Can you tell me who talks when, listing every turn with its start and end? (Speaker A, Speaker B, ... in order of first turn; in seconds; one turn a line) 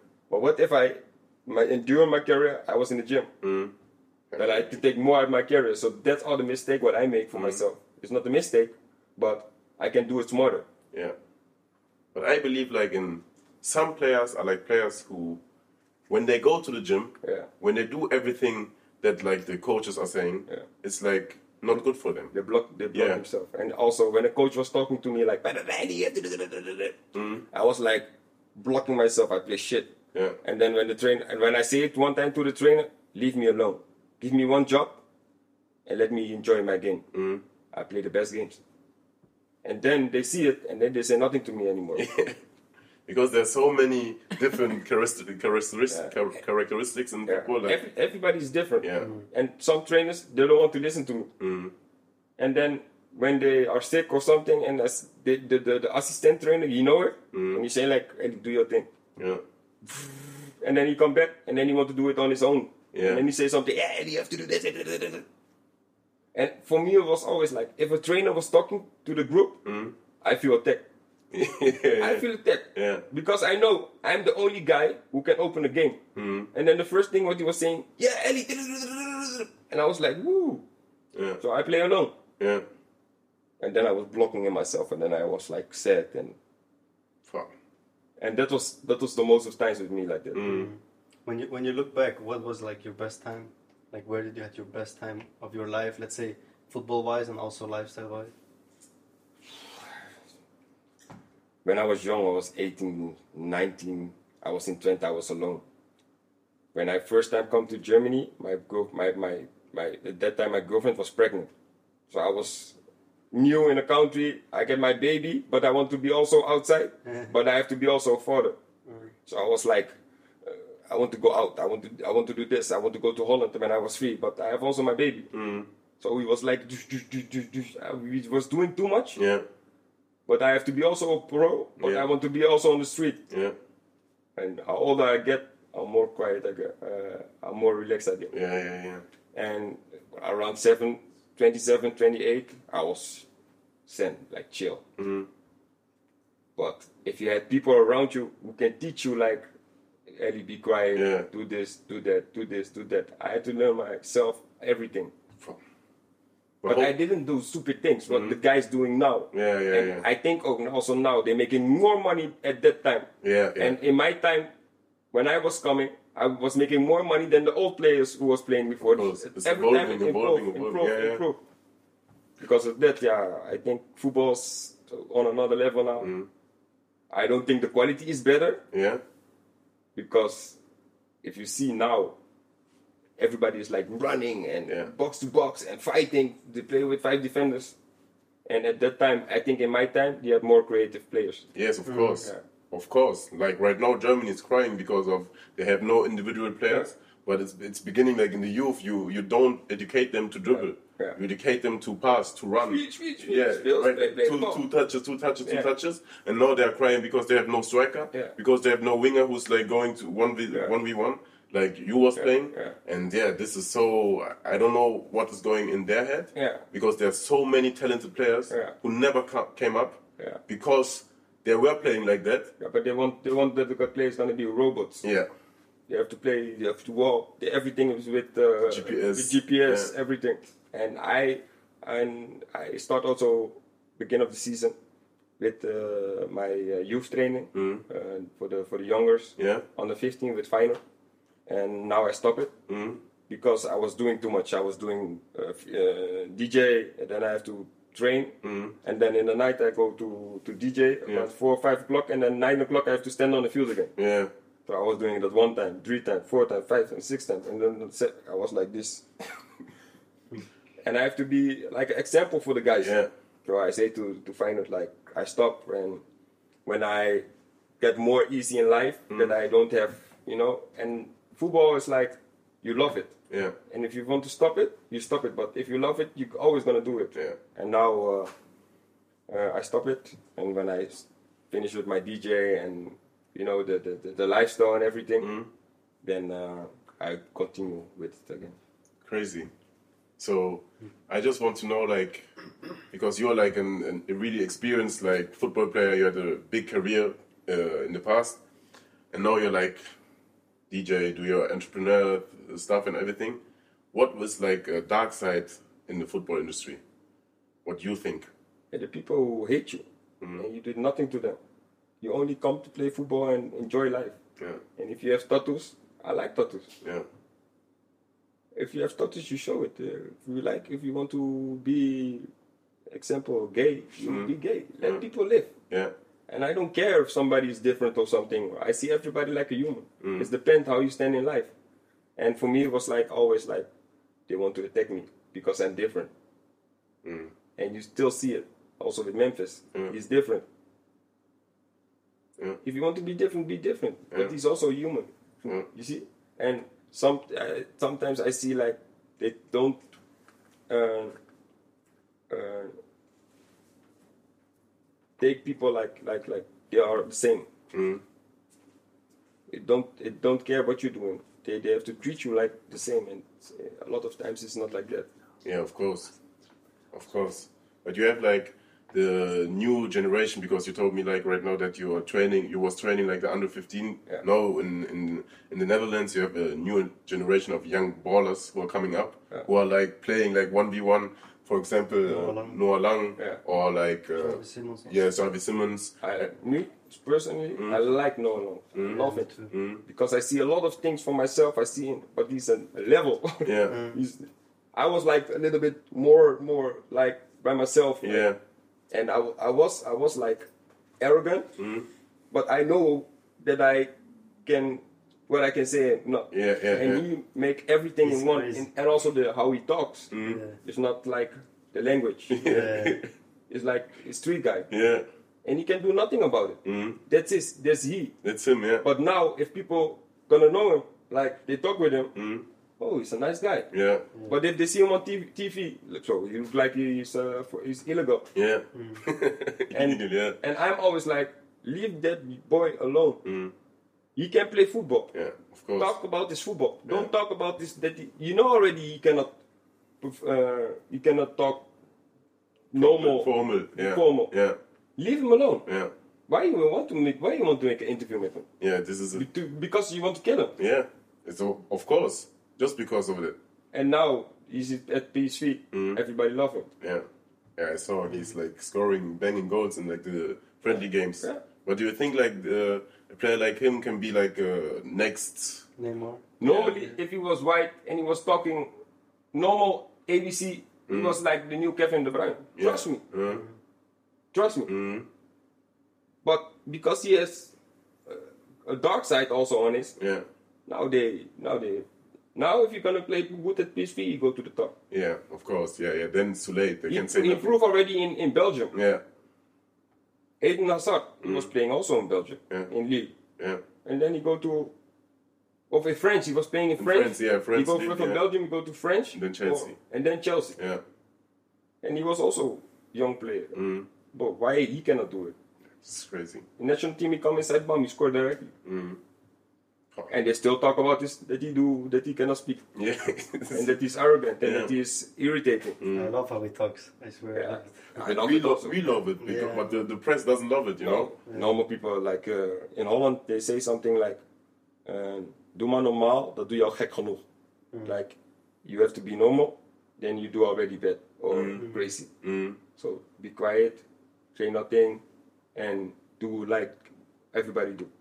Speaker A: 0.3-3.3
Speaker B: 3.4-3.7
Speaker B: 4.3-4.7
Speaker A: 4.4-10.7
Speaker B: 7.3-7.6
Speaker B: 12.1-15.4
Speaker B: 16.1-22.3
Speaker A: 17.2-17.5
Speaker A: 22.3-27.0
Speaker B: 22.9-23.2
Speaker B: 27.1-27.4
Speaker A: 27.5-35.0
Speaker A: 35.9-37.0
Speaker B: 37.1-37.4
Speaker A: 37.7-38.6
Speaker A: 39.6-42.0
Speaker B: 42.0-42.4
Speaker B: 43.1-47.8
Speaker A: 47.2-51.3
Speaker B: 48.8-49.1
Speaker B: 51.4-51.7
Speaker A: 52.4-58.9
Speaker B: 57.3-57.6
Speaker B: 59.2-59.4
Speaker A: 59.8-65.2
Speaker B: 62.9-63.2
Speaker A: 66.3-69.6
Speaker B: 69.6-69.9
Speaker A: 70.2-70.8
Speaker B: 71.3-73.0
Speaker A: 72.0-76.0
Speaker B: 76.1-76.5
Speaker A: 76.5-80.6
Speaker B: 81.1-81.4
Speaker A: 81.4-82.2
Speaker B: 82.4-82.6
Speaker A: 83.6-86.4
Speaker B: 87.2-87.5
Speaker A: 88.2-90.5
Speaker B: 90.3-90.7
Speaker C: 90.4-98.3
Speaker A: 101.6-105.6
Speaker A: 106.7-111.5
Speaker A: 112.1-112.8
Speaker A: 113.3-118.6
Speaker C: 118.9-119.1
Speaker A: 119.2-119.9
Speaker A: 120.4-125.3
Speaker B: 125.3-125.7
Speaker A: 126.0-129.2
Speaker B: 129.2-129.4
Speaker A: 130.3-133.2
Speaker B: 131.8-132.1
Speaker B: 133.3-133.5
Speaker A: 134.4-138.3
Speaker B: 138.3-139.0
Speaker A: 139.3-143.2
Speaker A: 143.9-144.8
Speaker B: 145.0-145.3
Speaker A: 146.6-149.4
Speaker A: 150.1-155.1
Speaker B: 150.9-151.3
Speaker B: 156.6-156.9
Speaker A: 156.6-164.5
Speaker B: 158.1-158.4
Speaker B: 159.3-160.0
Speaker B: 163.2-163.8
Speaker A: 165.1-171.4
Speaker B: 168.8-171.2
Speaker A: 172.4-176.1
Speaker B: 176.0-176.3
Speaker A: 177.1-178.6
Speaker B: 178.7-179.0
Speaker A: 179.9-180.6
Speaker A: 181.2-182.2
Speaker A: 183.2-187.8
Speaker A: 188.4-191.4
Speaker B: 191.5-222.5
Speaker C: 191.8-192.2
Speaker A: 200.5-201.2
Speaker A: 202.6-204.6
Speaker A: 212.2-212.8
Speaker A: 216.3-216.6
Speaker A: 218.5-218.7
Speaker A: 222.6-225.1
Speaker B: 225.0-225.3
Speaker A: 225.9-234.8
Speaker B: 228.7-229.9
Speaker A: 235.4-240.8
Speaker B: 237.5-237.8
Speaker B: 239.4-239.6
Speaker A: 241.5-242.5
Speaker B: 242.7-243.0
Speaker A: 243.3-253.9
Speaker B: 248.4-248.8
Speaker B: 254.0-254.3
Speaker A: 254.7-259.1
Speaker A: 260.8-266.0
Speaker B: 262.8-263.1
Speaker A: 266.6-267.2
Speaker A: 267.8-273.1
Speaker B: 273.3-273.6
Speaker A: 273.7-278.3
Speaker A: 279.3-285.3
Speaker B: 285.2-285.5
Speaker A: 286.0-288.6
Speaker B: 289.0-289.5
Speaker B: 290.2-292.3
Speaker B: 292.9-298.4
Speaker B: 299.1-299.8
Speaker B: 300.7-303.4
Speaker B: 303.9-306.8
Speaker B: 307.6-308.3
Speaker A: 308.7-309.9
Speaker A: 310.4-311.4
Speaker A: 312.0-314.2
Speaker A: 314.8-316.7
Speaker A: 318.5-322.3
Speaker A: 322.9-325.5
Speaker B: 324.0-325.0
Speaker A: 326.3-331.5
Speaker B: 330.0-330.3
Speaker A: 332.2-333.7
Speaker A: 334.3-336.1
Speaker B: 337.0-337.3
Speaker A: 337.6-340.4
Speaker A: 342.6-349.8
Speaker A: 350.7-351.1
Speaker A: 352.3-352.7
Speaker A: 355.2-357.5
Speaker B: 357.7-358.0
Speaker A: 359.5-365.1
Speaker B: 365.4-366.1
Speaker B: 366.9-386.3
Speaker C: 382.0-382.6
Speaker C: 384.2-385.0
Speaker A: 386.0-389.3
Speaker B: 388.7-389.8
Speaker C: 388.9-389.5
Speaker A: 389.9-398.2
Speaker B: 393.4-393.8
Speaker C: 393.7-394.0
Speaker B: 398.0-398.4
Speaker A: 398.9-400.5
Speaker A: 401.0-401.5
Speaker B: 401.6-401.9
Speaker A: 402.3-403.9
Speaker A: 404.4-412.5
Speaker B: 406.3-407.0
Speaker C: 408.0-408.6
Speaker B: 410.1-410.4
Speaker C: 410.2-410.6
Speaker B: 412.3-413.1
Speaker C: 412.4-413.0
Speaker A: 413.5-414.7
Speaker B: 414.7-415.1
Speaker A: 415.4-418.1
Speaker B: 416.6-417.0
Speaker B: 418.2-418.8
Speaker A: 418.8-422.1
Speaker B: 422.1-422.4
Speaker A: 422.8-423.7
Speaker B: 423.7-424.1
Speaker A: 424.3-428.2
Speaker B: 428.3-430.4
Speaker C: 428.7-429.0
Speaker A: 429.7-433.2
Speaker B: 433.2-433.5
Speaker A: 434.1-435.1
Speaker B: 435.1-435.9
Speaker A: 435.8-439.3
Speaker A: 440.0-441.7
Speaker A: 442.7-444.3
Speaker B: 442.7-444.6
Speaker A: 445.0-445.6
Speaker B: 445.7-445.9
Speaker A: 446.3-448.5
Speaker B: 448.6-449.2
Speaker A: 449.1-450.6
Speaker B: 450.6-453.4
Speaker A: 453.7-456.7
Speaker B: 455.7-456.0
Speaker B: 456.8-457.1
Speaker B: 457.6-465.6
Speaker C: 458.1-458.3
Speaker A: 460.7-461.4
Speaker C: 465.8-466.3
Speaker A: 466.4-468.7
Speaker B: 466.4-466.8
Speaker A: 469.3-473.0
Speaker B: 470.9-471.2
Speaker B: 472.6-473.4
Speaker C: 473.3-473.5
Speaker A: 474.3-474.7
Speaker B: 474.7-475.1
Speaker A: 476.2-477.5
Speaker A: 478.1-479.9
Speaker B: 480.0-480.2
Speaker A: 480.7-484.7
Speaker B: 484.9-487.5
Speaker A: 486.9-488.7
Speaker B: 488.7-489.0
Speaker A: 490.4-493.1
Speaker B: 491.2-491.5
Speaker A: 493.8-494.7
Speaker A: 495.7-500.6
Speaker B: 496.8-498.2
Speaker B: 499.1-499.8
Speaker A: 501.8-503.6
Speaker B: 503.5-503.9
Speaker A: 504.1-505.4
Speaker B: 505.8-506.4
Speaker A: 506.6-508.5
Speaker B: 508.6-509.0
Speaker A: 510.1-512.6
Speaker B: 512.7-513.7
Speaker A: 513.5-515.8
Speaker B: 514.4-514.7
Speaker B: 515.8-516.1
Speaker C: 515.9-517.8
Speaker A: 517.3-518.8
Speaker B: 518.0-521.1
Speaker C: 519.2-519.8
Speaker A: 520.8-524.2
Speaker C: 521.3-521.5
Speaker A: 524.9-527.2
Speaker A: 527.8-532.1
Speaker B: 531.3-531.7
Speaker B: 532.2-532.6
Speaker A: 532.8-533.8
Speaker A: 534.3-535.0
Speaker A: 535.5-537.9